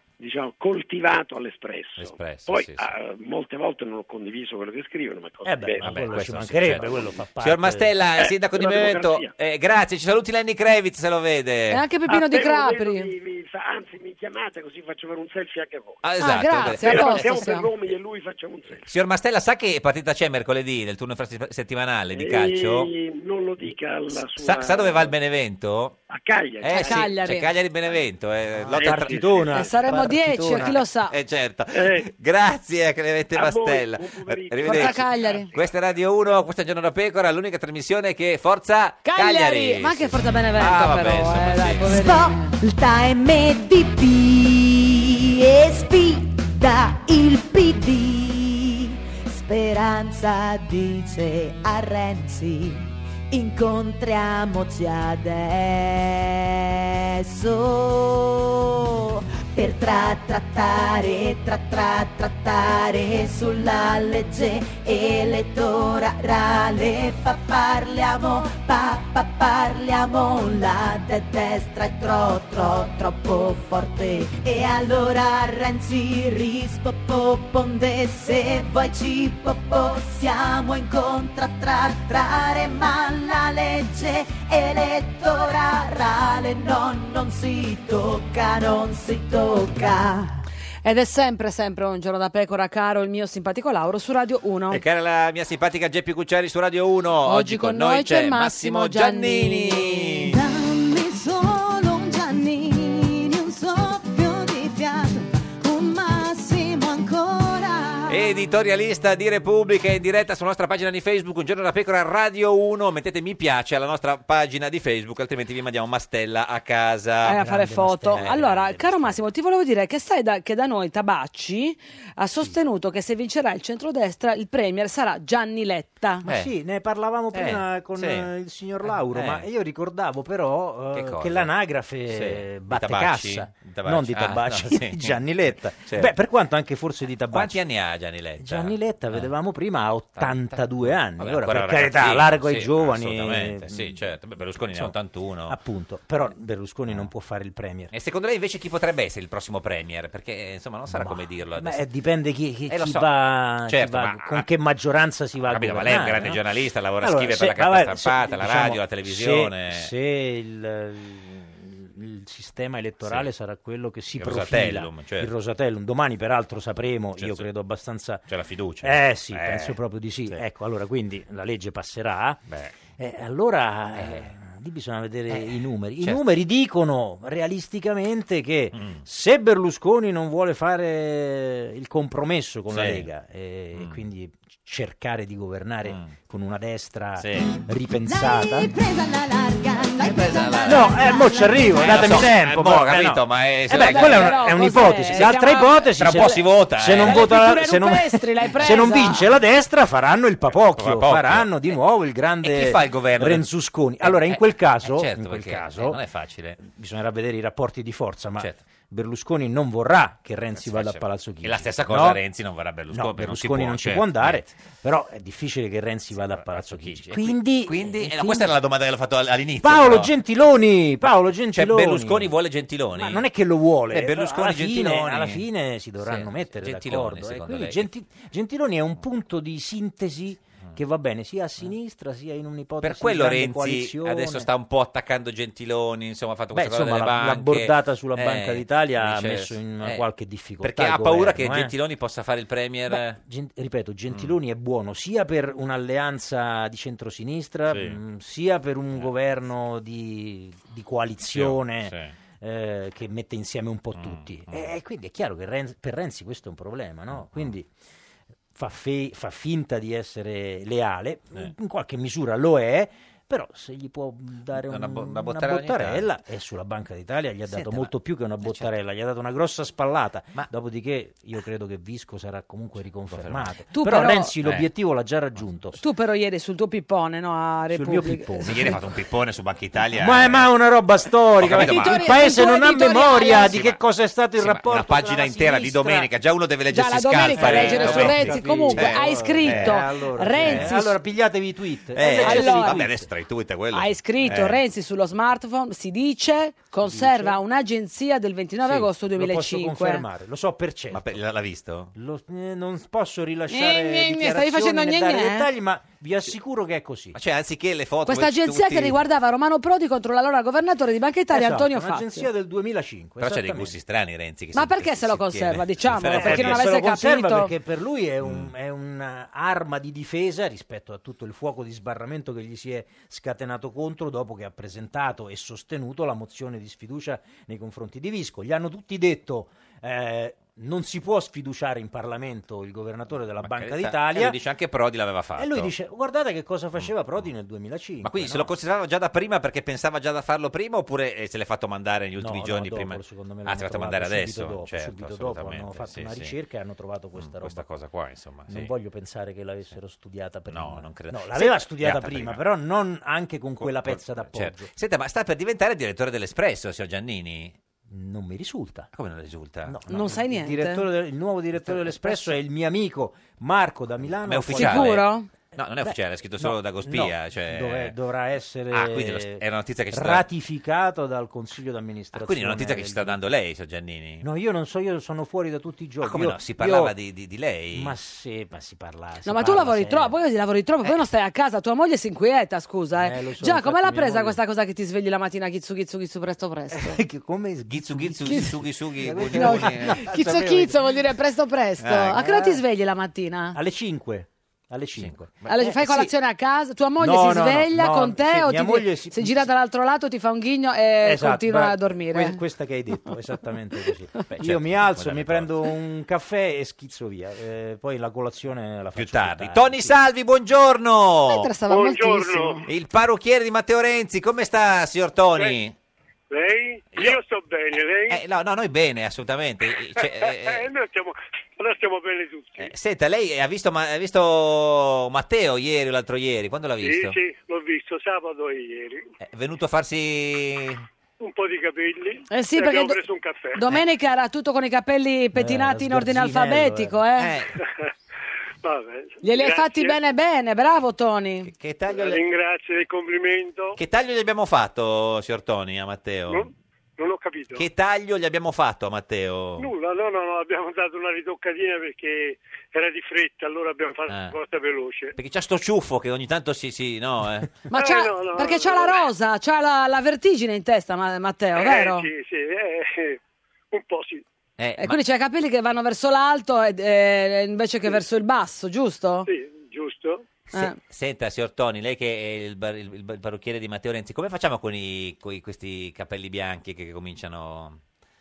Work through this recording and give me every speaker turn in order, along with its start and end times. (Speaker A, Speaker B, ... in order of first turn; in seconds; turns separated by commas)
Speaker A: 0.2-7.1, Speaker B: 2.0-2.8, Speaker C: 5.4-7.9, Speaker B: 5.8-11.8, Speaker A: 8.2-9.3, Speaker D: 11.7-13.1, Speaker A: 12.1-18.9, Speaker B: 16.0-17.3, Speaker D: 16.2-17.7, Speaker B: 18.8-22.9, Speaker A: 22.1-25.1, Speaker B: 24.4-26.0, Speaker A: 26.1-27.2, Speaker B: 26.6-29.5, Speaker D: 26.7-27.5, Speaker A: 28.6-29.8, Speaker C: 28.6-30.9, Speaker D: 29.5-31.1, Speaker B: 31.1-41.9, Speaker A: 31.7-32.1, Speaker A: 33.3-35.7, Speaker D: 34.6-35.5, Speaker D: 39.0-42.6, Speaker E: 41.9-90.4, Speaker D: 90.8-94.8, Speaker B: 94.7-100.4, Speaker D: 97.2-100.0, Speaker F: 100.2-108.3, Speaker B: 108.1-117.4, Speaker D: 117.2-126.2, Speaker C: 117.2-119.2, Speaker C: 126.2-137.6, Speaker B: 126.2-126.5, Speaker B: 127.3-128.3, Speaker B: 128.8-129.4, Speaker B: 130.9-131.5, Speaker B: 132.1-135.2, Speaker B: 135.8-136.1, Speaker B: 137.3-139.3, Speaker C: 138.4-144.0, Speaker B: 140.2-145.6, Speaker C: 144.7-144.9, Speaker C: 145.5-147.9, Speaker B: 147.9-151.8, Speaker C: 150.9-156.4, Speaker B: 152.7-153.1, Speaker B: 153.6-154.4, Speaker B: 155.4-159.9, Speaker C: 157.0-168.2, Speaker B: 164.2-165.3, Speaker B: 167.2-167.4, Speaker B: 168.3-169.7, Speaker C: 168.8-188.7, Speaker B: 172.5-172.8, Speaker B: 173.9-174.3, Speaker B: 175.3-176.2, Speaker B: 178.7-179.0, Speaker B: 182.7-183.1, Speaker B: 183.8-184.0, Speaker B: 187.2-187.5, Speaker E: 188.1-191.8, Speaker F: 189.8-190.4, Speaker B: 190.0-190.9, Speaker C: 190.6-206.0, Speaker B: 191.7-194.6, Speaker D: 193.7-196.3, Speaker B: 195.9-197.3, Speaker D: 197.0-199.3, Speaker B: 200.6-201.6, Speaker B: 202.4-203.5, Speaker B: 204.0-206.6, Speaker C: 206.6-212.2, Speaker B: 210.6-214.5, Speaker C: 212.9-218.5, Speaker B: 216.2-220.1, Speaker C: 219.6-222.3, Speaker B: 221.5-223.2, Speaker C: 222.9-234.5, Speaker B: 223.9-225.4, Speaker B: 226.0-227.9, Speaker B: 232.8-240.0, Speaker C: 236.5-241.7, Speaker B: 240.6-243.2, Speaker C: 242.9-257.7, Speaker B: 247.7-248.0, Speaker B: 251.3-252.1, Speaker B: 253.9-254.7, Speaker B: 257.2-257.5, Speaker C: 258.5-275.8, Speaker B: 264.6-266.1, Speaker B: 267.5-268.7, Speaker B: 273.1-273.6, Speaker D: 273.7-274.3, Speaker B: 274.4-274.7, Speaker D: 275.8-278.7, Speaker C: 277.7-278.8, Speaker B: 278.4-280.5, Speaker C: 279.9-286.1, Speaker B: 281.4-282.2, Speaker D: 281.5-283.5, Speaker B: 283.3-283.8, Speaker B: 284.4-289.8, Speaker D: 286.7-291.0, Speaker C: 287.3-293.1, Speaker B: 290.4-290.8, Speaker B: 291.9-294.6, Speaker D: 292.2-292.8, Speaker D: 293.7-300.0, Speaker C: 296.8-297.4, Speaker C: 298.6-301.2, Speaker B: 300.9-301.9, Speaker C: 301.9-307.1, Speaker D: 303.5-305.5, Speaker B: 307.1-309.0, Speaker D: 308.1-312.3, Speaker C: 311.3-313.8, Speaker B: 313.2-316.6, Speaker D: 314.5-317.5, Speaker C: 316.1-334.4, Speaker B: 318.2-318.5, Speaker B: 333.4-335.7, Speaker C: 335.4-338.5, Speaker B: 338.0-346.3, Speaker C: 342.2-347.7, Speaker B: 347.2-348.7, Speaker C: 348.5-354.7, Speaker B: 350.5-352.4, Speaker B: 353.6-357.6, Speaker C: 357.9-358.9, Speaker B: 358.9-359.8, Speaker C: 359.6-365.0, Speaker D: 359.9-360.8, Speaker B: 361.6-362.4, Speaker B: 364.2-367.9, Speaker D: 364.5-365.3, Speaker C: 365.8-373.2, Speaker B: 368.7-370.2, Speaker B: 372.1-374.2, Speaker C: 374.2-376.9, Speaker B: 376.0-377.9, Speaker C: 377.7-380.1, Speaker D: 379.2-387.0, Speaker C: 383.0-384.4, Speaker C: 386.7-390.9, Speaker B: 387.7-390.1, Speaker D: 389.2-393.6, Speaker B: 391.8-392.3, Speaker C: 392.2-392.6, Speaker C: 393.5-396.0, Speaker B: 395.0-396.0, Speaker D: 395.5-402.4, Speaker C: 397.0-399.5, Speaker C: 401.0-409.9, Speaker B: 404.3-405.5, Speaker B: 408.9-411.5, Speaker D: 411.3-412.7, Speaker G: 411.7-412.6, Speaker B: 412.6-415.7, Speaker G: 416.3-418.2, Speaker B: 416.9-417.2, Speaker B: 418.1-420.7, Speaker G: 420.0-422.7, Speaker B: 422.6-427.2, Speaker G: 426.8-429.1, Speaker B: 429.2-430.9, Speaker G: 431.2-433.7, Speaker D: 432.3-433.0, Speaker D: 433.5-437.3, Speaker C: 435.3-437.0, Speaker B: 437.2-437.6, Speaker G: 437.6-437.9, Speaker G: 438.6-440.0, Speaker D: 439.2-441.5, Speaker B: 441.4-442.2, Speaker G: 441.9-443.8, Speaker B: 443.8-446.5, Speaker G: 446.3-447.6, Speaker B: 447.5-449.7, Speaker G: 449.6-455.2, Speaker B: 454.1-454.4, Speaker B: 455.1-457.6, Speaker D: 457.7-462.1, Speaker G: 457.7-459.0, Speaker G: 461.6-463.2, Speaker G: 463.7-464.2, Speaker B: 464.6-465.0, Speaker D: 464.8-469.3, Speaker G: 469.2-470.3, Speaker B: 470.5-477.8